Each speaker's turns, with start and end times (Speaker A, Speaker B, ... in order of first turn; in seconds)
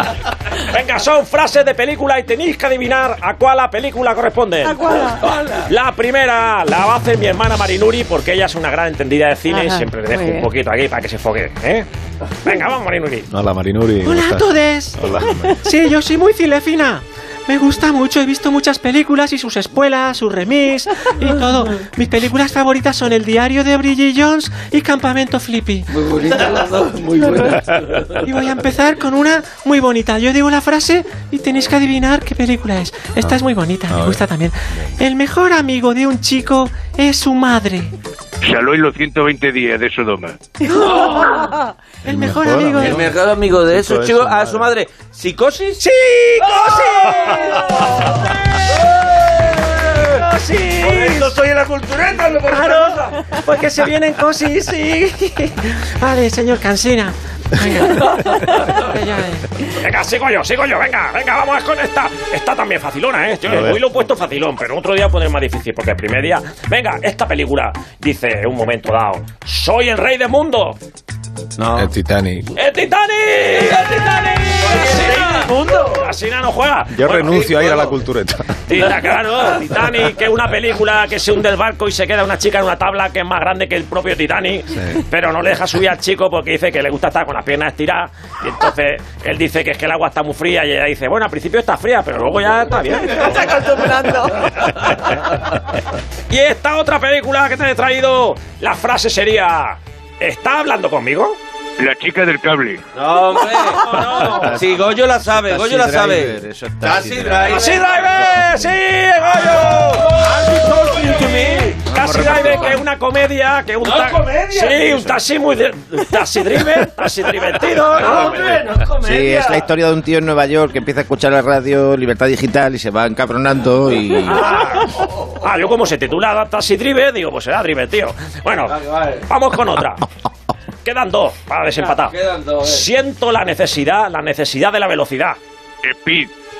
Speaker A: 0.6-5.2, 5.7-11.9, 12.4-13.3, 14.1-15.0, 15.6-16.6, 17.5-25.8, 28.2-29.1, 33.0-34.4, 42.1-43.0, 45.9-47.3, 50.1-51.3, 52.5-55.0, 56.1-57.1, 57.6-58.1, 58.7-59.0, 59.8-70.8, 72.5-77.9, 78.7-93.5, 96.3-101.4, 103.7-104.5, 107.4-110.2, 111.1-118.4, 124.2-130.1, 130.8-135.4
Speaker B: 4.6-5.2, 9.5-10.5, 93.1-94.7
Speaker C: 5.2-5.7, 25.9-28.2, 40.7-41.4, 42.8-45.8, 46.4-48.1, 49.1-50.1, 50.8-53.2, 71.6-71.8, 73.5-76.1, 102.9-108.0, 109.6-111.8, 113.8-115.2, 117.9-119.7, 124.5-125.3, 128.7-129.2, 131.8-132.8
Speaker D: 13.3-15.6, 33.2-34.3, 42.0-44.7, 63.5-63.8, 71.7-72.5, 76.9-78.7, 84.7-85.0
Speaker E: 14.1-14.9, 15.7-25.7, 28.4-37.9, 42.2-42.8, 53.5-55.5, 56.0-58.4, 59.0-59.4
Speaker F: 38.4-40.4, 101.8-102.8, 135.8-136.3
Speaker G: 105.3-107.6, 111.9-112.7, 119.0-124.5